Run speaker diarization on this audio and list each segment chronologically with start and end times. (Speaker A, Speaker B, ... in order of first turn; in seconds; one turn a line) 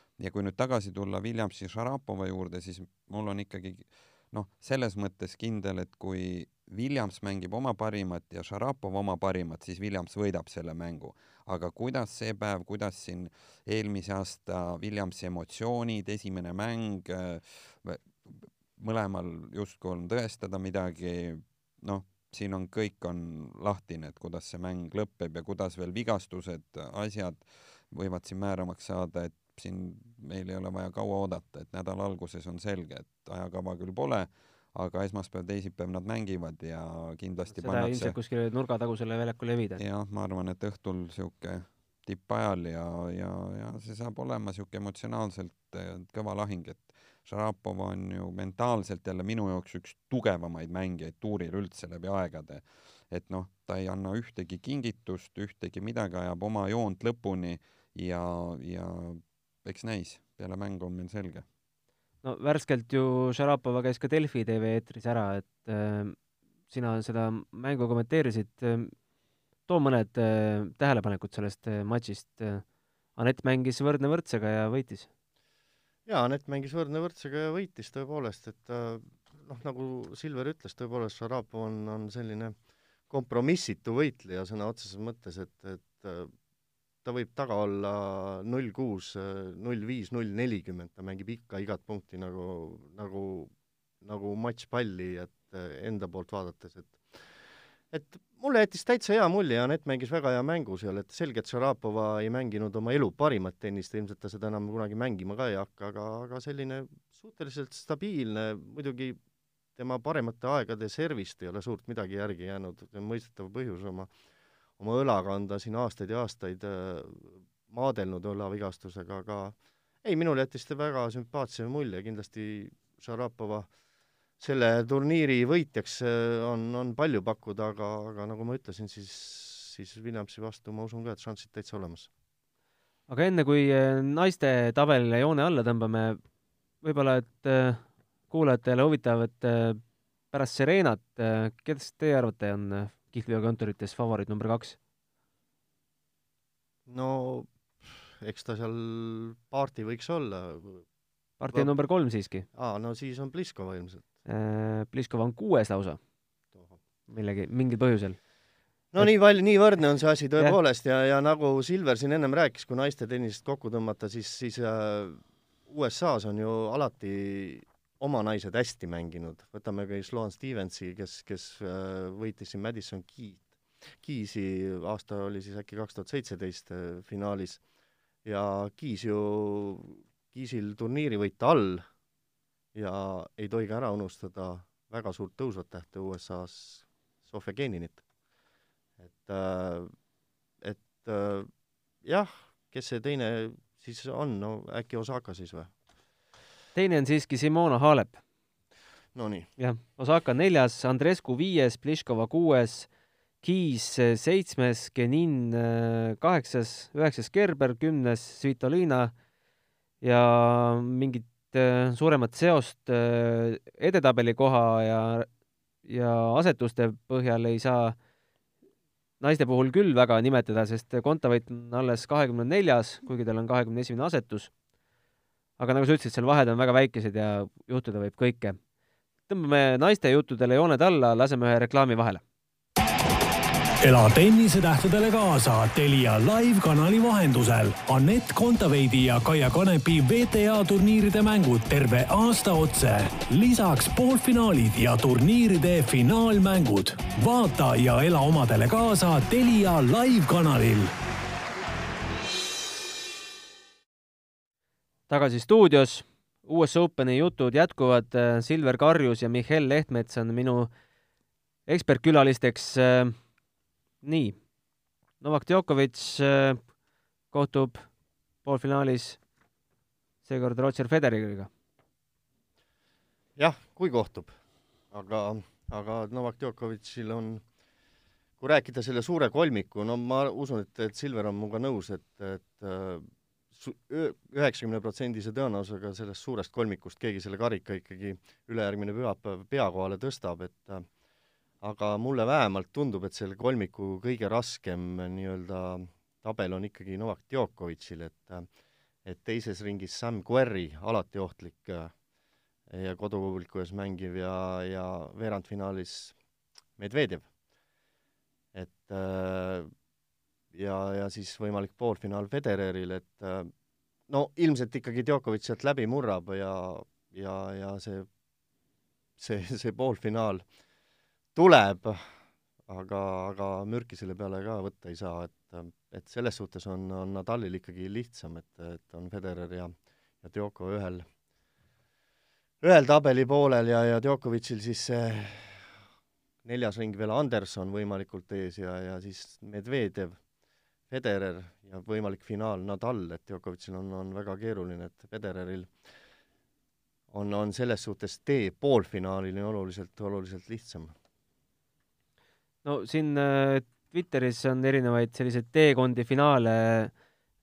Speaker A: 0.2-38.1
Speaker B: 37.5-39.8
Speaker A: 39.8-61.4
Speaker B: 62.2-66.2
Speaker B: 66.7-68.9
Speaker B: 69.7-72.6
Speaker B: 73.2-75.1
Speaker C: 76.0-82.6
Speaker C: 83.1-86.3
Speaker C: 87.0-97.3
Speaker C: 97.9-109.2
Speaker C: 109.8-114.1
Speaker C: 114.8-123.7
Speaker C: 124.4-132.1
Speaker B: 133.1-136.2
Speaker B: 136.8-139.8
Speaker B: 140.3-144.8
Speaker C: 146.9-150.8
Speaker B: 151.4-152.4
Speaker C: 152.5-154.0
Speaker B: 154.2-156.0
Speaker B: 157.1-158.2
Speaker C: 158.9-177.6
Speaker C: 178.2-181.8
Speaker C: 182.7-188.0
Speaker C: 189.0-189.9
Speaker C: 190.6-191.5
Speaker C: 192.0-195.7
Speaker B: 196.7-198.2
Speaker C: 199.1-199.5
Speaker B: 199.6-202.9
Speaker B: 203.4-209.1
Speaker B: 210.0-215.3
Speaker B: 215.8-217.9
Speaker B: 219.2-224.5
Speaker B: 225.6-228.6
Speaker B: 229.3-232.2
Speaker D: 233.8-250.9
Speaker B: 255.1-260.7
Speaker B: 261.7-263.1
Speaker B: 264.0-264.4
Speaker B: 265.2-266.6
Speaker B: 267.3-267.8
Speaker B: 268.4-269.2
Speaker B: 270.2-271.5
Speaker C: 273.4-274.4
Speaker C: 274.9-277.4
Speaker C: 278.4-290.9
Speaker C: 291.6-298.5
Speaker C: 299.0-301.9
Speaker C: 302.7-306.1
Speaker C: 306.8-307.3
Speaker C: 308.5-309.7
Speaker C: 310.5-313.5
Speaker C: 314.1-318.1
Speaker C: 319.2-320.4
Speaker C: 321.3-322.1
Speaker C: 322.7-331.1
Speaker C: 332.6-335.7
Speaker C: 336.4-340.2
Speaker C: 340.9-345.7
Speaker C: 347.1-350.9
Speaker B: 352.6-356.9